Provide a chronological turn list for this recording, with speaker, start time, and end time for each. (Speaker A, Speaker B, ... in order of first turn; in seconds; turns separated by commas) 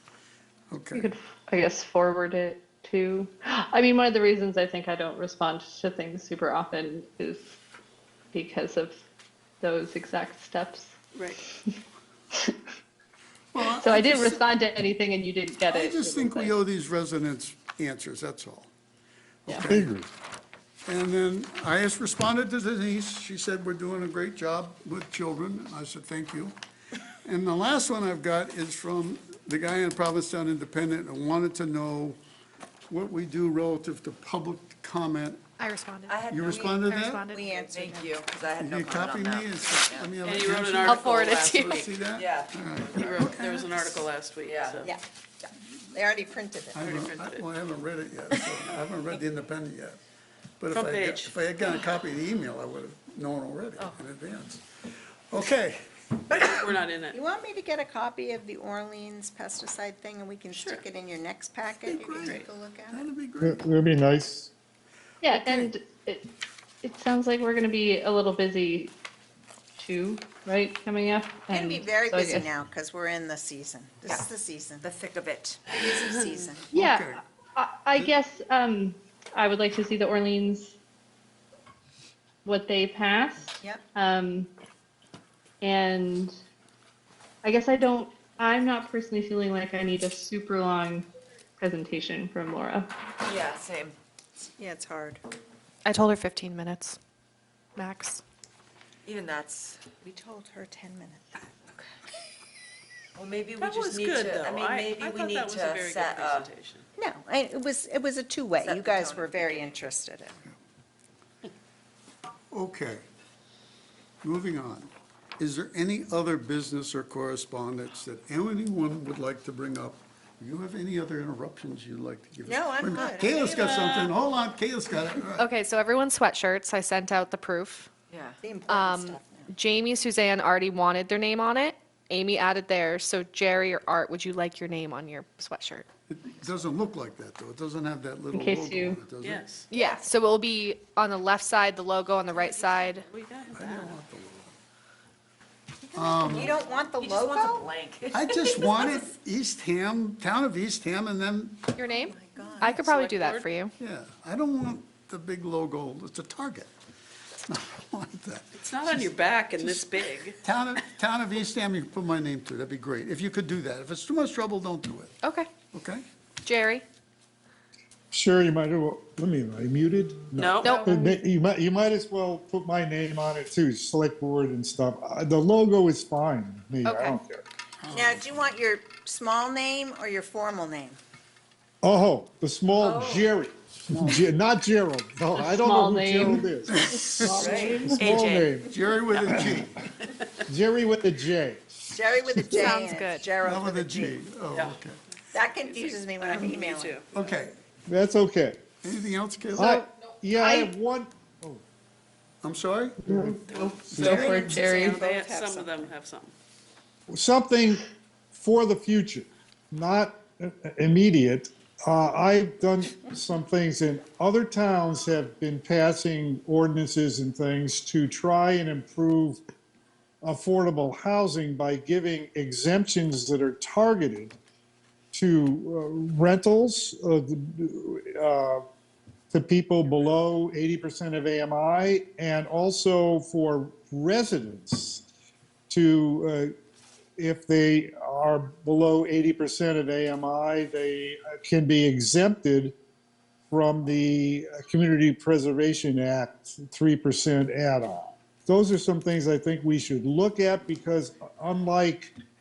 Speaker A: 0.7-1.1, Speaker B: 0.9-7.6, Speaker B: 8.3-9.0, Speaker B: 9.6-11.8, Speaker C: 11.1-11.4, Speaker A: 13.5-14.4, Speaker B: 13.7-16.6, Speaker A: 15.7-18.7, Speaker A: 19.5-19.9, Speaker D: 19.7-20.1, Speaker A: 20.9-26.6, Speaker A: 27.2-32.2, Speaker A: 32.9-35.4, Speaker E: 35.6-37.5, Speaker F: 36.1-40.1, Speaker A: 36.2-37.3, Speaker G: 37.2-38.3, Speaker A: 38.5-44.0, Speaker C: 40.2-42.0, Speaker E: 40.8-42.0, Speaker F: 42.1-42.5, Speaker C: 42.8-44.9, Speaker F: 44.5-44.9, Speaker G: 44.8-46.8, Speaker A: 46.8-50.0, Speaker C: 46.8-47.5, Speaker A: 50.6-54.6, Speaker C: 50.7-51.4, Speaker A: 55.3-55.8, Speaker G: 56.3-63.1, Speaker C: 56.4-57.2, Speaker C: 60.5-60.8, Speaker A: 61.8-63.6, Speaker C: 62.2-62.5, Speaker D: 63.4-64.5, Speaker B: 65.2-66.3, Speaker B: 66.8-69.0, Speaker B: 69.8-72.5, Speaker G: 71.5-74.9, Speaker F: 74.8-75.6, Speaker G: 75.7-76.7, Speaker B: 76.7-80.8, Speaker A: 76.7-77.2, Speaker B: 82.5-84.5, Speaker B: 85.6-86.4, Speaker B: 87.4-92.9, Speaker F: 93.2-94.0, Speaker G: 94.4-95.2, Speaker E: 95.8-97.0, Speaker E: 97.8-98.2, Speaker F: 99.0-99.9, Speaker G: 100.0-101.3, Speaker F: 103.2-106.5, Speaker C: 103.6-106.9, Speaker G: 107.0-110.4, Speaker F: 108.6-109.8, Speaker A: 112.5-113.0, Speaker A: 114.2-125.5, Speaker G: 122.5-123.5, Speaker C: 123.2-124.2, Speaker E: 125.4-127.9, Speaker F: 128.1-128.4, Speaker G: 128.4-129.5, Speaker E: 128.7-135.9, Speaker A: 136.1-139.5, Speaker B: 138.3-139.0, Speaker C: 139.2-139.7, Speaker E: 139.7-143.1, Speaker G: 139.8-140.1, Speaker C: 142.9-144.0, Speaker A: 143.5-144.5, Speaker G: 145.8-147.7, Speaker A: 145.9-146.5, Speaker F: 146.3-149.1, Speaker A: 148.1-151.8, Speaker E: 151.8-153.7, Speaker G: 151.9-152.8, Speaker C: 152.7-153.5, Speaker A: 153.8-156.7, Speaker A: 157.4-165.2, Speaker C: 158.6-160.8, Speaker E: 165.2-165.5, Speaker A: 165.7-166.1, Speaker E: 166.4-166.9, Speaker D: 168.1-177.4, Speaker C: 170.4-170.7, Speaker E: 170.6-170.9, Speaker B: 170.8-171.2, Speaker E: 176.8-177.2, Speaker A: 177.8-178.5, Speaker G: 177.9-181.0, Speaker D: 181.8-188.7, Speaker F: 182.8-183.3, Speaker A: 183.9-184.3, Speaker B: 185.4-188.1, Speaker A: 186.7-187.9, Speaker F: 187.4-187.8, Speaker C: 188.0-188.7, Speaker A: 188.6-189.8, Speaker D: 189.4-189.7, Speaker C: 190.0-190.4, Speaker D: 190.5-192.4, Speaker G: 191.9-194.2, Speaker E: 192.5-193.4, Speaker A: 193.4-195.0, Speaker C: 194.5-194.8, Speaker G: 195.3-197.0, Speaker C: 195.4-197.1, Speaker A: 197.1-197.6, Speaker D: 197.9-198.6, Speaker A: 198.8-199.8, Speaker D: 199.6-201.6, Speaker A: 202.4-203.1, Speaker D: 203.1-203.4, Speaker B: 203.1-205.0, Speaker C: 203.5-206.3, Speaker A: 203.9-204.2, Speaker D: 203.9-204.5, Speaker G: 204.0-205.9, Speaker D: 207.1-219.4, Speaker D: 220.2-224.4, Speaker D: 225.1-228.6, Speaker D: 229.3-235.1, Speaker D: 235.7-236.5, Speaker D: 237.2-242.8, Speaker D: 243.5-252.1